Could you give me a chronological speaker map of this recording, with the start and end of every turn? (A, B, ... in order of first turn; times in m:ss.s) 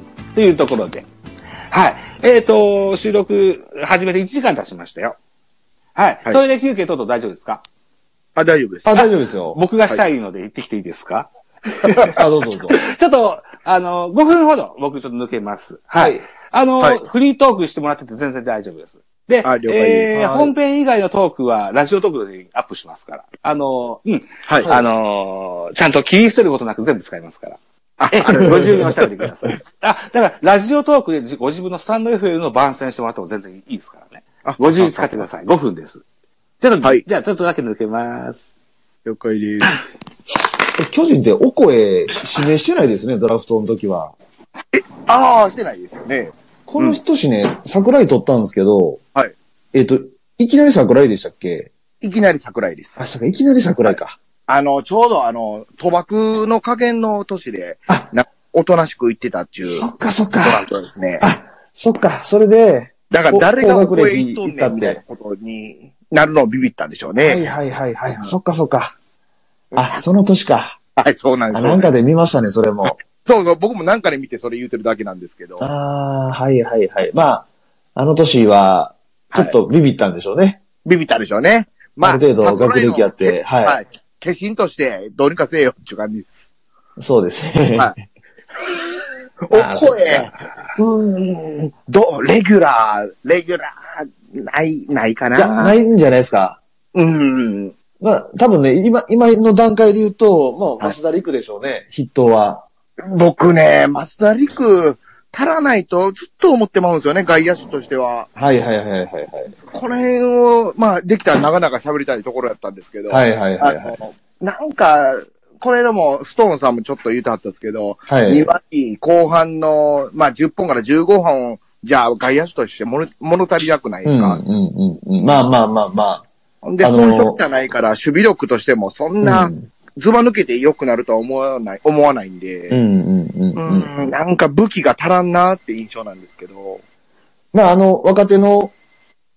0:00.3-0:01.1 A
0:01.7-0:05.2 A
0:06.0-0:07.6 A
0:08.4-0:09.1 B
0:08.8-0:09.6 C
0:09.5-0:12.2 A
0:12.1-0:12.8 C
0:12.7-0:27.6 A
0:16.0-0:16.2 C
0:19.4-0:20.2 B
0:20.1-0:20.6 C
0:24.5-0:24.7 B
0:24.6-0:24.9 C
0:28.0-0:29.0 B
0:28.1-0:36.0 A
0:34.4-0:35.3 B
0:36.6-0:38.5 A
0:39.0-0:39.9 B
0:40.8-0:44.2 C
0:44.7-0:47.0 B
0:46.7-0:49.0 C
0:49.7-0:51.7 C
0:52.0-0:53.1 B
0:53.0-0:54.2 C
0:53.7-1:01.3 B
0:59.6-1:00.6 C
1:01.2-1:05.0 C
1:03.1-1:07.5 B
1:07.2-1:09.0 C
1:09.7-1:10.0 B
1:09.8-1:10.8 C
1:11.0-1:11.9 B
1:11.5-1:13.0 C
1:13.1-1:15.7 B
1:15.6-1:20.6 C
1:19.3-1:19.6 B
1:20.8-1:26.5 B
1:22.0-1:23.8 C
1:27.0-1:28.0 C
1:28.6-1:35.8 B
1:29.5-1:30.3 C
1:35.4-1:36.6 C
1:36.9-1:37.8 B
1:38.0-1:42.7 C
1:43.0-1:48.3 B
1:48.4-1:49.5 C
1:49.7-2:04.4 B
1:53.1-1:54.0 C
1:58.1-1:58.5 C
2:04.0-2:06.3 C
2:05.2-2:05.5 B
2:06.6-2:12.8 B
2:06.8-2:07.4 C
2:09.2-2:09.7 C
2:12.7-2:13.9 C
2:13.6-2:16.8 B
2:17.5-2:18.7 C